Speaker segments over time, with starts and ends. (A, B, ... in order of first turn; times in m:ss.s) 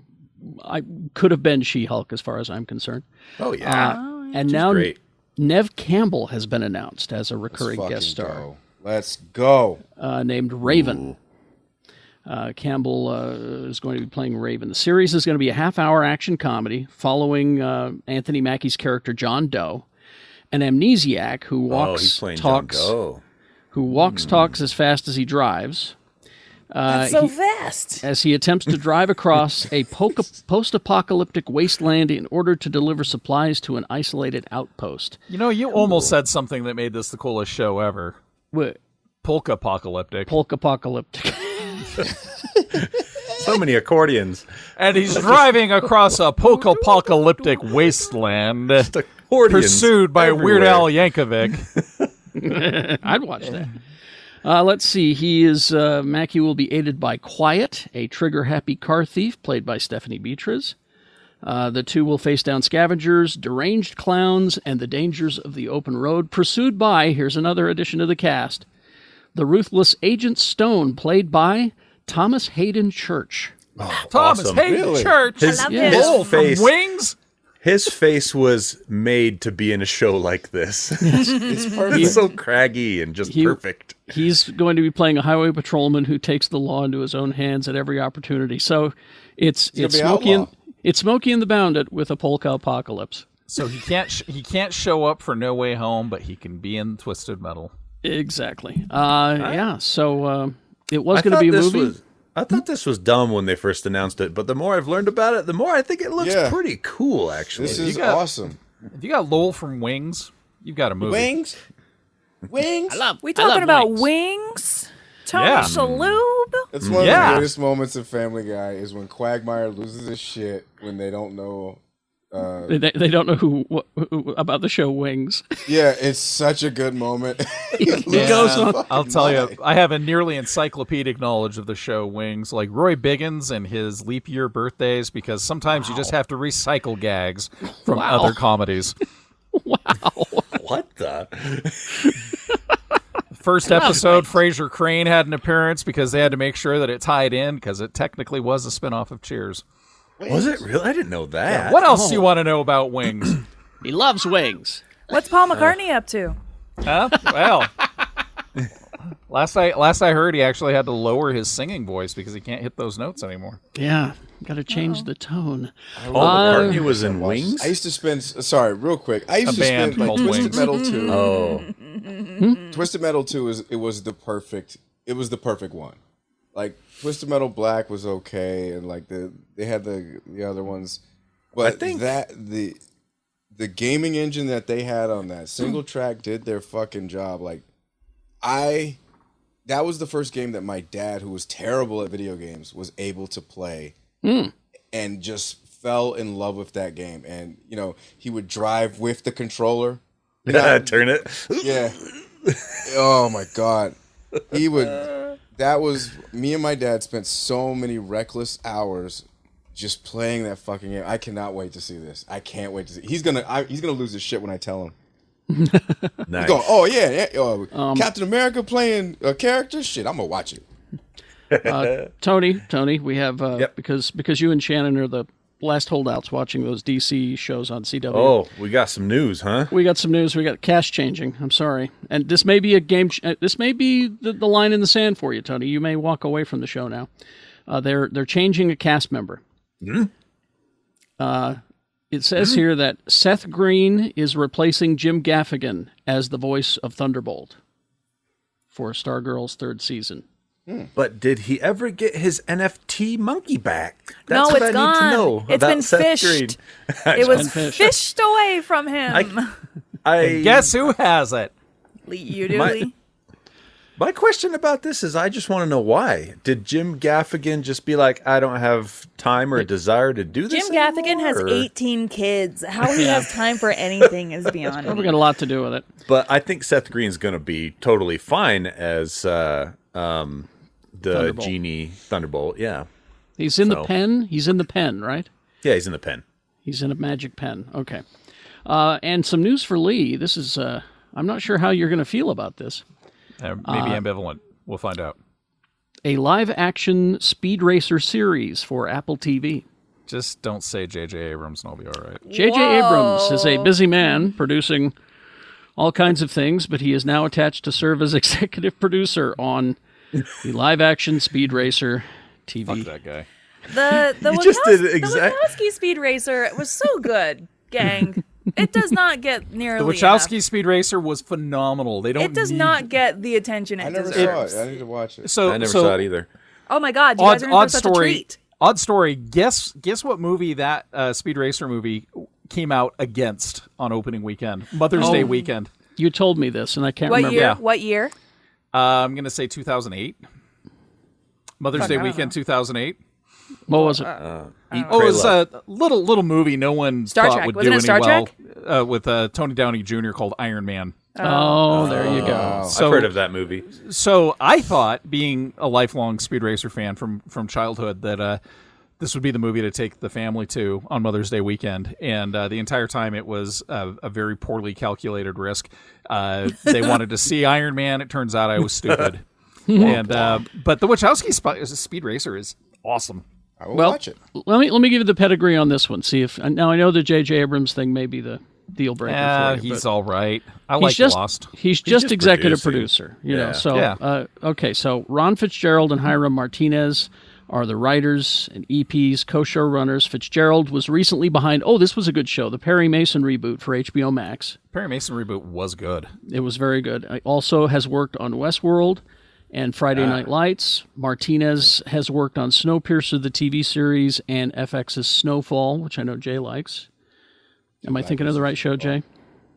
0:00.4-0:03.0 A
0:03.4-0:05.0 B
0:03.6-0:08.4 A
0:03.7-0:04.7 C
0:07.5-0:09.8 D
0:10.0-0:11.0 A
0:10.7-0:11.2 B
0:12.3-0:19.9 A
0:20.5-0:23.0 A
0:21.7-0:23.2 B
0:23.7-0:26.0 A
0:26.7-0:27.4 A
0:26.9-0:28.0 C
0:28.0-0:35.2 A
0:35.3-0:38.2 E
0:35.8-0:36.1 B
0:38.5-0:38.8 A
0:39.2-0:40.3 E
0:40.3-0:42.1 A
0:43.3-0:44.5 B
0:44.8-0:48.9 E
0:45.1-0:45.4 B
0:48.8-0:50.9 B
0:49.4-0:51.7 E
0:52.4-0:53.7 A
0:54.4-1:00.8 A
1:01.4-1:08.7 A
1:09.4-1:13.6 A
1:13.8-1:16.7 B
1:14.1-1:17.2 E
1:14.6-1:15.2 D
1:15.4-1:16.4 C
1:15.7-1:16.1 A
1:17.6-1:24.0 B
1:21.0-1:21.3 A
1:21.4-1:22.3 D
1:23.3-1:33.3 A
1:29.7-1:30.5 D
1:33.5-1:37.7 E
1:38.0-1:42.0 A
1:41.1-1:47.9 B
1:46.2-1:46.6 D
1:47.6-1:48.6 D
1:47.6-1:48.3 E
1:48.9-1:51.3 E
1:51.0-1:51.6 D
1:52.5-1:53.1 D
1:52.9-1:54.0 A
1:53.2-1:56.7 C
1:53.5-1:53.9 E
1:55.3-1:55.7 E
1:55.6-1:56.2 B
1:56.7-2:01.8 D
1:56.8-1:57.5 B
1:57.0-1:57.5 E
2:02.3-2:02.8 D
2:02.7-2:05.5 A
2:05.7-2:09.6 D
2:07.8-2:08.9 A
2:08.1-2:19.0 E
2:17.8-2:18.4 A
2:19.5-2:20.6 A
2:20.5-2:22.0 B
2:23.4-2:29.6 E
2:23.7-2:24.3 A
2:30.2-2:30.7 D
2:30.3-2:31.9 B
2:31.5-2:33.4 E
2:31.5-2:32.3 A
2:33.8-2:34.8 A
2:35.1-2:36.4 C
2:36.8-2:37.7 E
2:39.3-2:43.6 E
2:43.8-2:46.8 A
2:44.7-2:45.1 C
2:46.0-2:51.3 D
2:46.1-2:47.8 B
2:49.4-2:50.6 E
2:50.2-2:52.7 C
2:51.1-2:51.7 B
2:52.4-2:52.6 A
2:52.7-2:56.0 D
2:56.5-3:01.0 D
3:01.5-3:02.8 D
3:01.6-3:02.1 B
3:03.5-3:07.6 D
3:08.4-3:09.0 D
3:09.7-3:14.0 D
3:14.2-3:14.5 A
3:14.9-3:21.1 D
3:20.5-3:22.7 B
3:21.6-3:22.0 D
3:22.8-3:24.0 D
3:24.5-3:34.9 D
3:35.5-3:36.2 A
3:36.3-3:36.7 B
3:36.4-3:40.6 D
3:37.7-3:38.1 A
3:41.5-3:42.0 B
3:41.6-3:48.4 A
3:48.1-3:49.7 B
3:49.7-3:57.1 A
3:57.7-3:59.4 A
3:59.8-4:00.1 B
4:01.2-4:01.6 A
4:02.1-4:07.6 A
4:08.7-4:10.2 A
4:11.0-4:18.0 B
4:14.3-4:16.6 C
4:17.1-4:19.5 C
4:17.2-4:17.9 A
4:20.0-4:20.9 B
4:20.2-4:21.5 E
4:22.1-4:22.9 C
4:22.5-4:22.9 B
4:24.0-4:31.7 B
4:30.5-4:35.1 C
4:33.0-4:33.3 A
4:34.8-4:35.8 A
4:36.1-4:42.9 B
4:41.1-4:41.5 A
4:43.4-4:45.3 A
4:43.6-4:43.9 B
4:45.6-4:46.2 B
4:46.7-4:48.0 A
4:48.6-4:52.8 A
4:53.4-4:55.2 E
4:53.6-4:54.0 A
4:56.0-4:59.6 A
5:00.1-5:02.2 E
5:02.2-5:03.7 C
5:02.3-5:04.9 A
5:05.8-5:09.8 A
5:10.4-5:12.9 A
5:12.7-5:13.3 E
5:13.7-5:20.3 C
5:14.2-5:15.5 B
5:19.8-5:22.9 E
5:22.2-5:24.6 C
5:23.8-5:25.3 D
5:24.1-5:24.4 E
5:25.2-5:26.0 E
5:25.4-5:26.3 B
5:26.7-5:28.4 C
5:27.2-5:35.7 E
5:34.9-5:35.5 C
5:35.0-5:35.3 A
5:36.0-5:37.5 A
5:37.1-5:38.1 C
5:37.3-5:37.6 E
5:38.7-5:40.2 E
5:41.6-5:43.0 E
5:41.8-5:42.3 C
5:43.7-5:44.1 A
5:43.7-5:45.3 C
5:44.2-5:45.5 B
5:44.9-5:51.0 E
5:47.1-5:48.3 C
5:51.2-5:51.9 C
5:51.2-5:52.6 A
5:51.7-5:53.7 B
5:51.9-5:52.8 D
5:52.7-5:58.4 E
5:59.0-6:09.2 E
6:09.7-6:10.0 A
6:09.7-6:10.4 B
6:09.8-6:13.2 E
6:13.6-6:14.2 D
6:13.7-6:19.8 A
6:19.1-6:21.5 E
6:20.8-6:34.6 A
6:21.8-6:23.6 B
6:23.7-6:24.0 E
6:34.7-6:36.1 E
6:36.3-6:46.9 A
6:47.8-6:49.0 D
6:47.8-6:49.0 A